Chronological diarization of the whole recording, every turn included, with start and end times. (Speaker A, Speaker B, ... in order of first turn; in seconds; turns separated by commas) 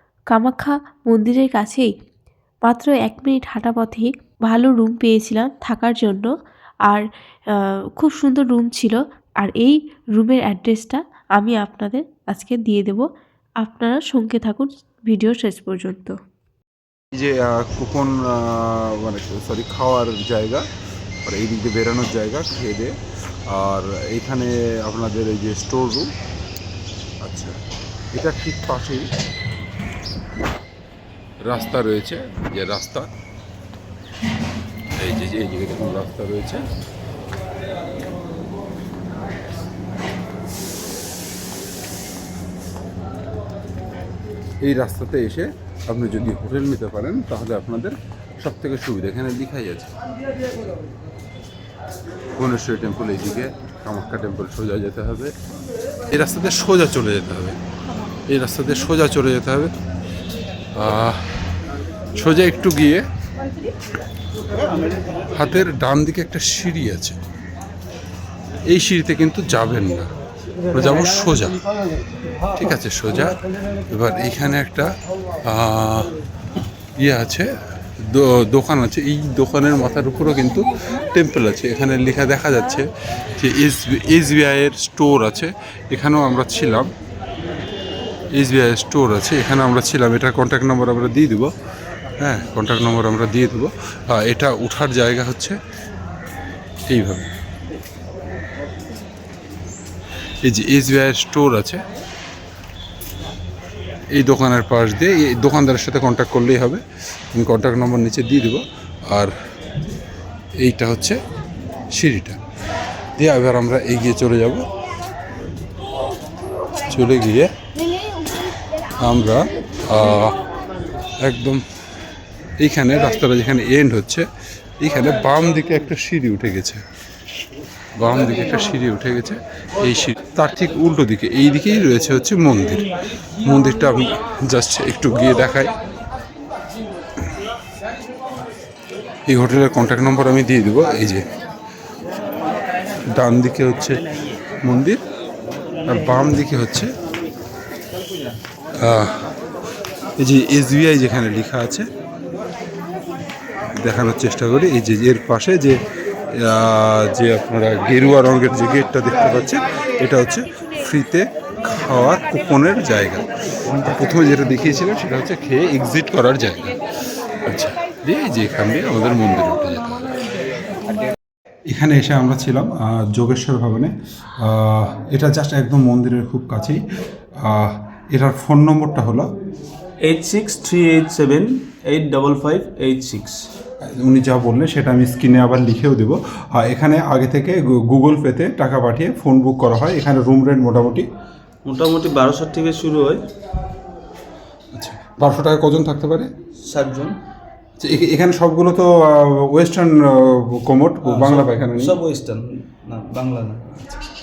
Speaker A: 0.3-1.9, Speaker A: 2.6-6.3, Speaker A: 6.9-13.1, Speaker A: 13.6-16.1, Speaker B: 17.1-20.6, Speaker B: 21.2-22.9, Speaker B: 23.5-26.1, Speaker B: 27.2-27.6, Speaker B: 28.1-29.1, Speaker B: 31.4-33.0, Speaker B: 35.0-36.6, Speaker B: 44.6-49.9, Speaker B: 52.4-55.3, Speaker B: 56.1-57.6, Speaker B: 58.3-59.7, Speaker B: 60.8-61.2, Speaker B: 62.1-63.0, Speaker B: 65.3-67.2, Speaker B: 68.7-70.1, Speaker B: 70.7-71.6, Speaker B: 72.5-73.4, Speaker B: 73.9-74.9, Speaker B: 75.4-76.1, Speaker B: 77.0-77.5, Speaker B: 78.1-82.8, Speaker B: 83.4-86.9, Speaker B: 88.3-91.5, Speaker B: 92.2-95.5, Speaker B: 96.9-97.3, Speaker B: 100.5-101.8, Speaker B: 104.2-106.8, Speaker B: 107.3-109.3, Speaker B: 110.6-111.2, Speaker B: 111.9-112.4, Speaker B: 113.2-114.6, Speaker B: 116.8-117.5, Speaker B: 119.0-120.3, Speaker B: 121.2-121.6, Speaker B: 122.6-124.2, Speaker B: 124.8-126.8, Speaker B: 128.0-132.9, Speaker B: 133.4-135.7, Speaker B: 139.3-141.2, Speaker B: 143.1-144.0, Speaker B: 144.6-145.0, Speaker B: 145.8-146.9, Speaker B: 148.8-149.1, Speaker B: 150.2-151.9, Speaker B: 153.8-155.8, Speaker B: 156.4-163.2, Speaker B: 163.8-166.8, Speaker B: 167.4-169.9, Speaker B: 171.7-176.8, Speaker B: 177.4-179.3, Speaker C: 180.0-183.4, Speaker B: 184.0-191.1, Speaker C: 191.7-193.2, Speaker B: 194.7-196.3, Speaker C: 196.6-197.1, Speaker B: 197.8-201.9, Speaker C: 201.0-203.7